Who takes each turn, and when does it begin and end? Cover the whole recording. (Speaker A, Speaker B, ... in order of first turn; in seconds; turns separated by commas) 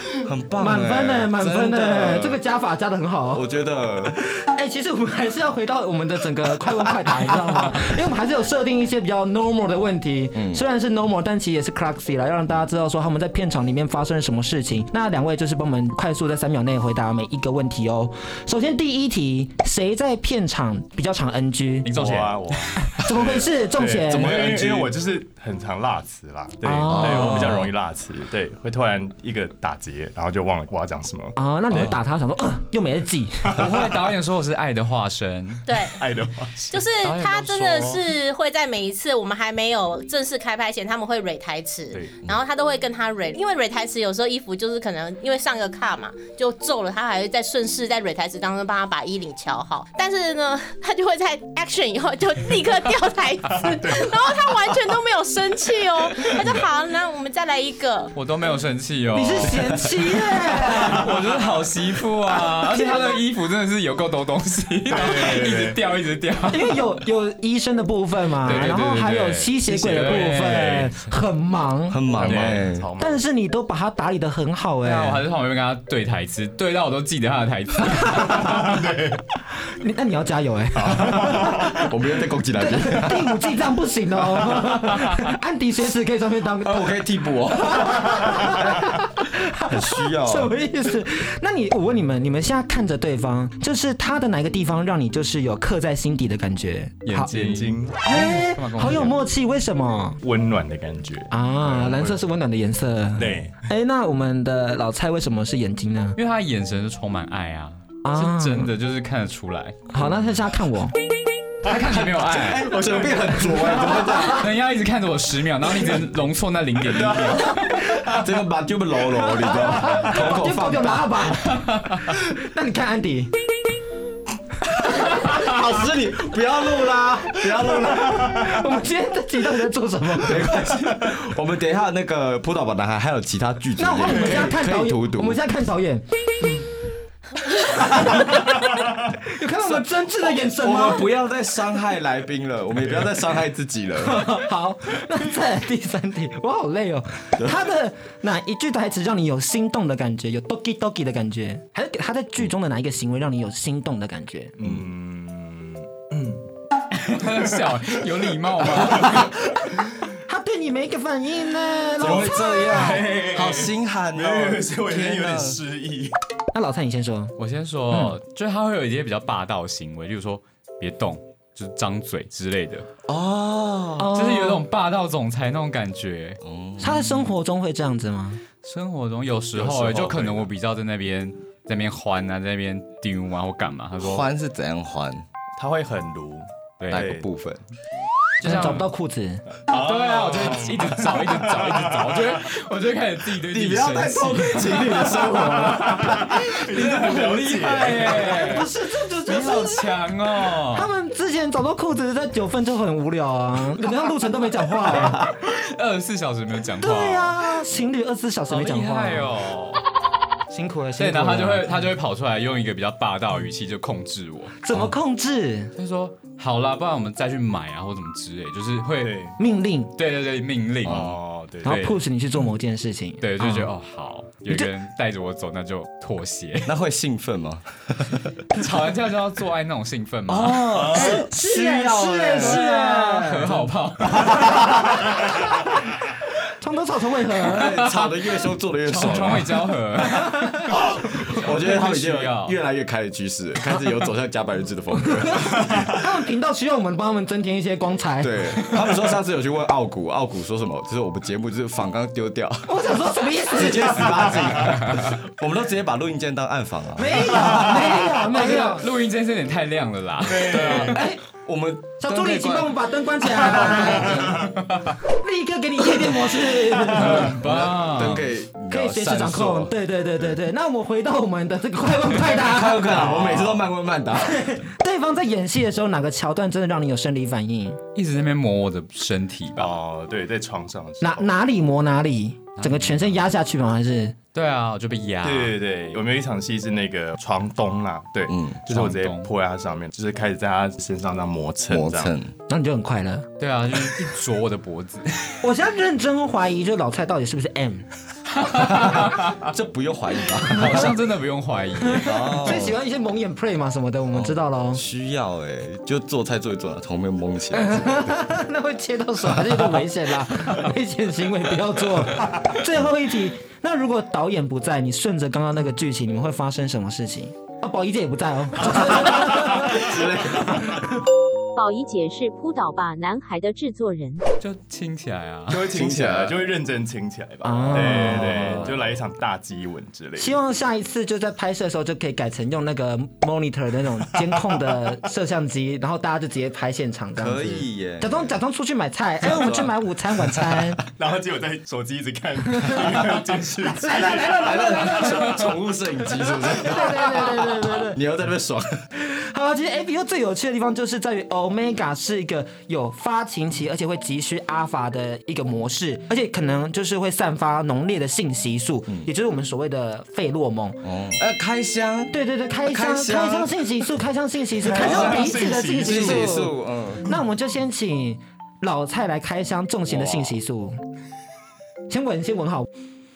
Speaker A: 0.2-2.4, Speaker B: 0.5-3.4, Speaker A: 3.3-4.2, Speaker B: 4.0-21.9, Speaker A: 10.3-10.6, Speaker C: 21.8-22.6, Speaker D: 21.9-31.9, Speaker B: 22.8-24.4, Speaker A: 24.0-24.9, Speaker B: 26.6-27.4, Speaker A: 26.9-27.7, Speaker B: 31.4-33.6, Speaker C: 33.6-35.6, Speaker E: 35.7-36.0, Speaker D: 36.0-36.8, Speaker E: 36.7-58.1, Speaker C: 37.0-38.0, Speaker D: 41.9-42.2, Speaker D: 53.7-54.1, Speaker C: 58.1-66.8, Speaker B: 59.1-61.1, Speaker B: 62.7-63.2, Speaker D: 64.9-65.8, Speaker B: 66.5-72.0, Speaker C: 68.4-71.1, Speaker A: 71.9-72.9, Speaker D: 72.2-73.1, Speaker C: 72.2-72.6, Speaker B: 73.0-75.2, Speaker C: 74.8-78.8, Speaker D: 78.4-79.2, Speaker B: 79.7-81.9, Speaker D: 80.8-81.8, Speaker A: 81.7-83.3, Speaker B: 82.5-97.4, Speaker A: 86.6-89.0, Speaker A: 89.6-90.5, Speaker C: 97.0-99.2, Speaker D: 97.3-98.0, Speaker B: 98.0-100.2, Speaker D: 100.2-102.2, Speaker B: 101.3-106.2, Speaker D: 103.2-103.6, Speaker C: 106.2-109.8, Speaker B: 108.0-108.7, Speaker B: 109.9-110.9, Speaker C: 111.6-112.7, Speaker D: 111.7-112.0, Speaker A: 112.1-114.5, Speaker D: 112.7-113.6, Speaker B: 113.5-114.4, Speaker C: 114.3-117.9, Speaker B: 117.6-118.1, Speaker A: 118.0-121.2, Speaker B: 119.1-123.3, Speaker C: 121.6-122.0, Speaker A: 125.0-128.4, Speaker B: 127.7-130.8, Speaker A: 130.1-135.4, Speaker B: 133.8-136.0, Speaker B: 137.8-141.2, Speaker D: 138.4-138.9, Speaker A: 140.4-144.3, Speaker B: 144.0-154.5, Speaker A: 147.4-147.6, Speaker D: 154.6-156.4, Speaker C: 156.9-159.3, Speaker B: 160.3-163.1, Speaker A: 162.0-165.6, Speaker D: 162.0-166.1, Speaker B: 166.5-167.3, Speaker C: 167.4-172.9, Speaker B: 167.9-168.2, Speaker A: 173.1-174.1, Speaker B: 174.0-174.6, Speaker C: 174.1-176.4, Speaker A: 176.4-177.3, Speaker B: 176.8-178.4, Speaker C: 178.6-184.3, Speaker D: 179.6-180.4, Speaker A: 184.0-185.2, Speaker D: 185.6-187.2, Speaker C: 186.8-187.2, Speaker A: 186.9-187.6, Speaker C: 188.4-188.9, Speaker B: 188.4-189.4, Speaker D: 189.7-192.1, Speaker C: 189.7-195.3, Speaker A: 193.5-196.2, Speaker D: 195.4-198.4, Speaker C: 195.8-198.7, Speaker B: 198.1-199.9, Speaker C: 199.2-200.9, Speaker B: 200.7-205.2, Speaker C: 204.9-207.4, Speaker B: 206.8-209.3, Speaker C: 208.5-209.8, Speaker B: 210.5-211.9, Speaker C: 211.0-214.6, Speaker B: 214.6-215.7, Speaker C: 215.8-219.2, Speaker D: 219.0-219.3, Speaker B: 219.4-219.9, Speaker C: 220.0-222.0, Speaker A: 220.8-221.2, Speaker D: 220.8-221.8, Speaker B: 221.6-223.7, Speaker C: 223.2-226.7, Speaker A: 226.7-228.4, Speaker C: 228.5-230.9, Speaker A: 230.3-232.9, Speaker D: 230.7-231.2, Speaker B: 230.9-235.8, Speaker C: 232.3-234.4, Speaker A: 234.0-234.9, Speaker B: 236.6-237.9, Speaker A: 237.5-239.7, Speaker C: 237.6-238.2, Speaker C: 238.8-242.6, Speaker B: 240.1-240.8, Speaker A: 240.7-246.0, Speaker B: 244.9-248.4, Speaker A: 248.2-252.7, Speaker B: 252.7-254.4, Speaker A: 253.5-257.8, Speaker B: 256.9-258.9, Speaker C: 258.3-260.9, Speaker D: 260.3-260.9, Speaker A: 260.6-262.7, Speaker B: 260.9-261.2, Speaker B: 262.0-264.4, Speaker A: 263.3-264.4, Speaker C: 264.6-264.9, Speaker B: 265.1-267.4, Speaker C: 266.9-268.3, Speaker A: 267.1-269.7, Speaker B: 268.7-273.2, Speaker A: 272.2-274.5, Speaker D: 272.9-273.6, Speaker B: 274.1-277.8, Speaker C: 277.9-279.7, Speaker D: 279.6-281.3, Speaker B: 281.0-284.1, Speaker C: 282.6-283.2, Speaker C: 284.3-285.6, Speaker D: 285.2-292.1, Speaker A: 288.3-288.6, Speaker C: 288.7-289.3, Speaker A: 291.7-292.3, Speaker B: 292.5-293.3, Speaker C: 293.4-295.4, Speaker B: 295.4-297.9, Speaker C: 298.3-299.4, Speaker A: 298.5-300.9, Speaker C: 300.5-302.7, Speaker B: 300.5-300.9, Speaker B: 301.8-304.8, Speaker A: 302.0-302.8, Speaker A: 304.1-308.2, Speaker B: 307.5-320.0, Speaker A: 309.5-309.8, Speaker A: 319.0-320.9, Speaker F: 321.6-324.2, Speaker C: 324.4-325.8, Speaker D: 325.5-330.3, Speaker A: 325.7-326.4, Speaker B: 327.4-328.7, Speaker A: 327.7-328.8, Speaker B: 330.2-340.8, Speaker A: 337.2-338.3, Speaker A: 339.2-339.7, Speaker A: 340.4-340.6, Speaker D: 341.0-345.5, Speaker B: 342.6-343.0, Speaker B: 343.7-345.5, Speaker A: 344.3-348.8, Speaker B: 346.4-348.0, Speaker B: 348.9-360.9, Speaker A: 360.8-363.5, Speaker B: 362.1-370.8, Speaker D: 364.6-366.5, Speaker A: 364.7-367.1, Speaker D: 370.0-370.2, Speaker B: 371.9-372.7